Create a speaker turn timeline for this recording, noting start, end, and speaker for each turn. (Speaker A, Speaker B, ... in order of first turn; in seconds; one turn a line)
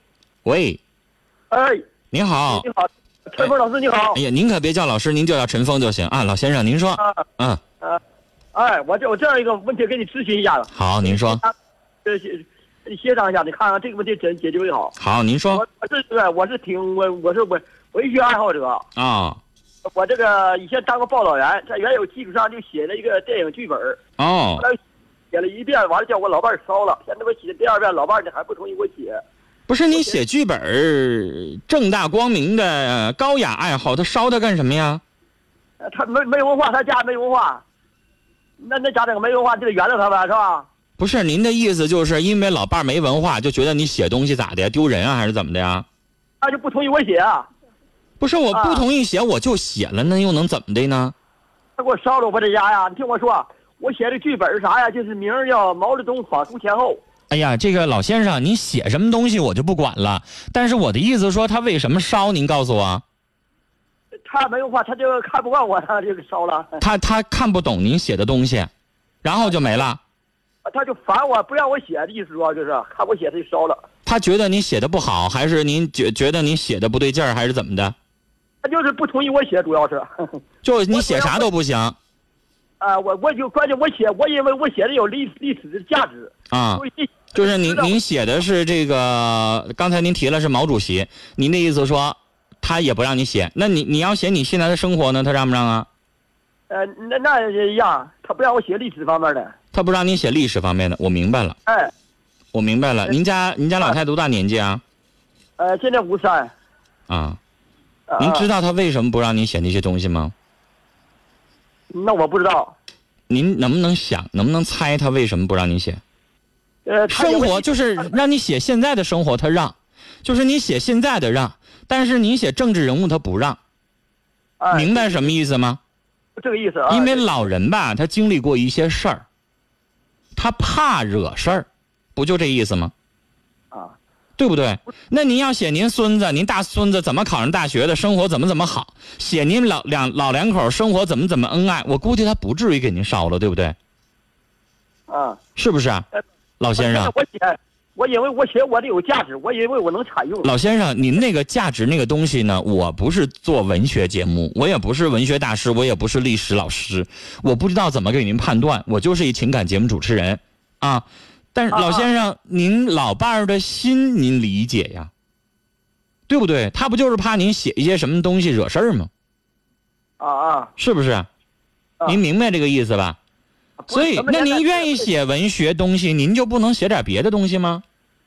Speaker A: 0.4-0.8
Speaker B: 1.5-1.8
Speaker A: 2.1-2.6
Speaker B: 2.5-4.2
Speaker A: 4.1-7.6
Speaker B: 8.5-11.5
Speaker A: 10.7-11.4
Speaker B: 12.0-14.9
Speaker A: 15.0-15.6
Speaker B: 15.5-18.8
Speaker A: 18.9-19.4
Speaker B: 19.9-24.0
Speaker A: 24.2-24.6
Speaker B: 25.3-29.2
Speaker A: 29.7-35.0
Speaker B: 29.9-30.2
Speaker B: 35.8-37.6
Speaker B: 38.6-40.7
Speaker A: 41.0-45.9
Speaker B: 46.4-47.5
Speaker A: 48.2-51.1
Speaker B: 48.5-48.8
Speaker B: 51.8-57.0
Speaker A: 57.3-63.0
Speaker B: 64.3-66.8
Speaker A: 66.8-68.7
Speaker A: 69.2-70.0
Speaker B: 70.6-73.8
Speaker A: 74.0-77.9
Speaker B: 78.6-80.3
Speaker A: 80.6-82.0
Speaker B: 80.9-81.5
Speaker B: 82.8-88.0
Speaker A: 86.5-95.9
Speaker B: 96.7-99.5
Speaker A: 99.7-101.6
Speaker B: 101.7-101.9
Speaker A: 102.5-104.8
Speaker B: 105.6-106.5
Speaker A: 107.1-107.4
Speaker B: 108.1-108.5
Speaker A: 108.2-110.3
Speaker B: 111.9-112.7
Speaker A: 113.3-116.0
Speaker B: 116.8-117.8
Speaker A: 117.1-123.6
Speaker B: 124.6-125.3
Speaker A: 124.7-125.8
Speaker B: 126.4-127.2
Speaker A: 126.9-129.2
Speaker A: 130.3-132.9
Speaker B: 133.7-134.0
Speaker A: 134.4-143.8
Speaker B: 145.1-145.4
Speaker A: 145.6-146.0
Speaker A: 146.6-147.1
Speaker B: 146.8-150.5
Speaker A: 150.4-165.1
Speaker B: 161.7-162.1
Speaker A: 166.3-169.1
Speaker B: 170.2-170.7
Speaker A: 170.8-171.3
Speaker A: 172.0-173.2
Speaker B: 173.8-175.1
Speaker A: 173.9-177.8